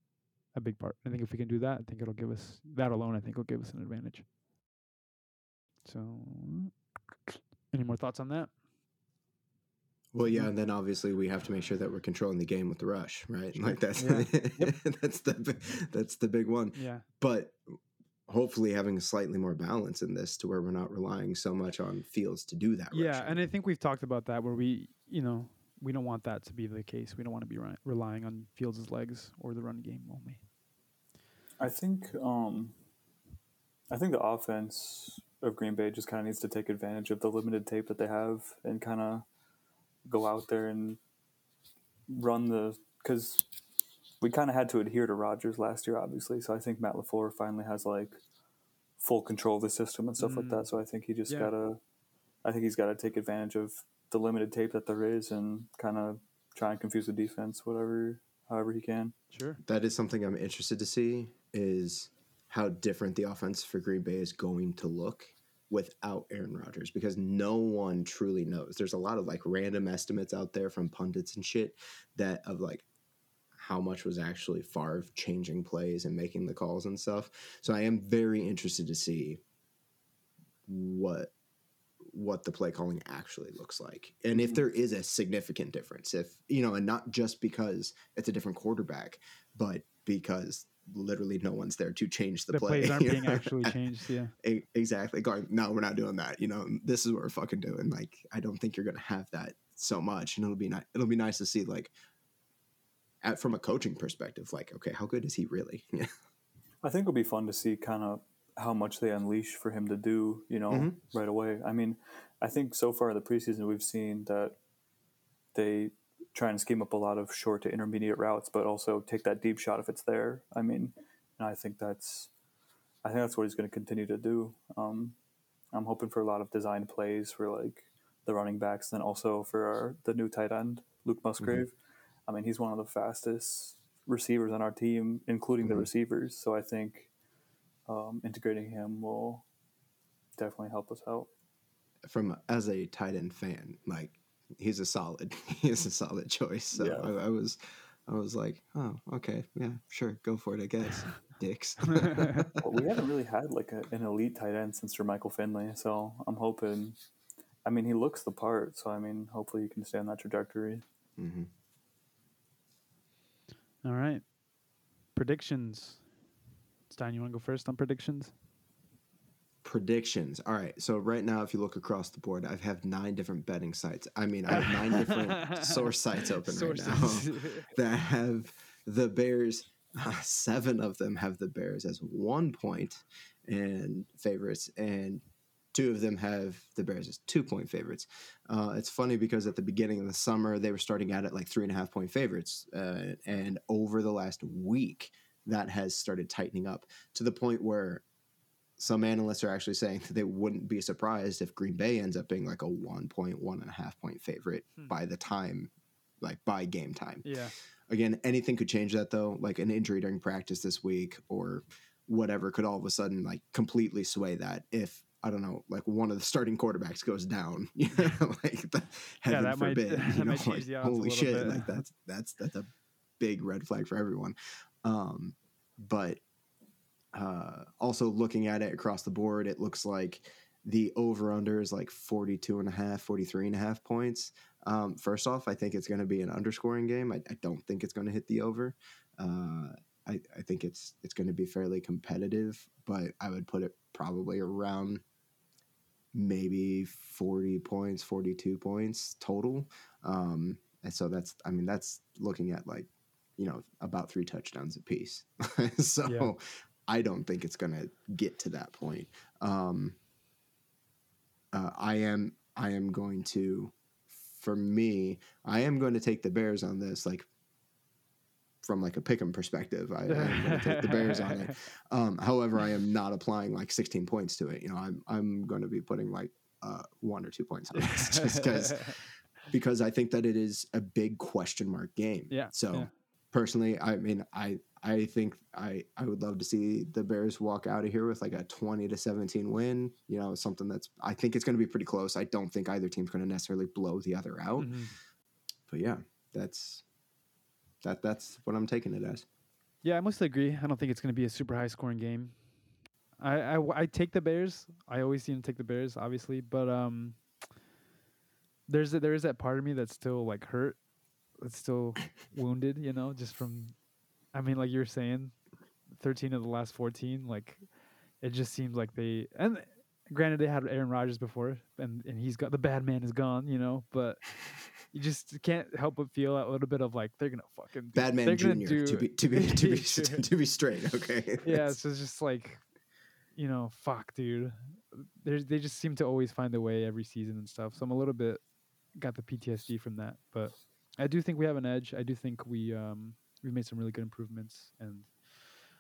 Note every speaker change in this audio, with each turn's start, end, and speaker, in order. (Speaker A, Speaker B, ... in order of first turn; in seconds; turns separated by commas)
Speaker A: 0.5-4.3, Speaker A: 5.8-6.7, Speaker A: 7.3-8.5, Speaker B: 10.1-17.6, Speaker A: 13.6-14.7, Speaker A: 16.7-17.1, Speaker B: 18.3-23.4, Speaker A: 22.9-30.4, Speaker C: 31.6-32.7, Speaker C: 33.9-39.3, Speaker C: 40.0-41.0, Speaker C: 42.1-43.5, Speaker C: 44.2-48.2, Speaker C: 49.0-51.8, Speaker A: 50.2-50.7, Speaker C: 52.4-59.1, Speaker A: 59.3-59.6, Speaker B: 59.6-72.9, Speaker B: 73.6-79.4, Speaker B: 80.7-81.3, Speaker B: 82.0-93.8, Speaker A: 92.5-94.3, Speaker B: 94.4-101.9, Speaker B: 103.2-106.1, Speaker C: 106.8-114.6, Speaker B: 110.7-111.0, Speaker C: 115.5-122.3, Speaker C: 123.0-125.2, Speaker C: 125.7-131.7, Speaker B: 131.4-131.6, Speaker C: 132.3-137.1, Speaker B: 135.6-135.9, Speaker C: 137.9-139.4, Speaker C: 140.4-141.3, Speaker B: 142.1-152.6, Speaker C: 146.7-147.1, Speaker A: 152.1-152.4, Speaker C: 152.6-157.0, Speaker C: 157.6-160.8, Speaker B: 161.2-161.5, Speaker A: 163.8-164.2, Speaker A: 165.1-166.0, Speaker A: 166.9-168.3, Speaker B: 169.6-198.0, Speaker A: 174.5-175.9, Speaker A: 176.4-177.7, Speaker B: 198.8-207.4, Speaker A: 207.2-207.5, Speaker B: 207.9-226.2, Speaker A: 219.3-221.7, Speaker B: 227.1-245.0, Speaker B: 246.1-260.0, Speaker A: 256.1-256.3, Speaker B: 261.5-267.3, Speaker B: 268.6-279.0, Speaker A: 270.1-271.5, Speaker A: 277.7-279.0, Speaker B: 279.5-294.8, Speaker A: 282.3-282.9, Speaker A: 294.6-294.9, Speaker B: 295.7-296.8, Speaker B: 297.8-299.2, Speaker A: 299.8-302.4, Speaker A: 303.2-307.2, Speaker A: 308.7-310.8, Speaker A: 311.4-313.7, Speaker A: 314.3-315.4, Speaker A: 315.9-317.6, Speaker A: 318.2-324.2, Speaker A: 324.9-330.2, Speaker B: 327.9-331.8, Speaker A: 331.4-332.6, Speaker A: 333.4-338.4, Speaker A: 338.9-345.1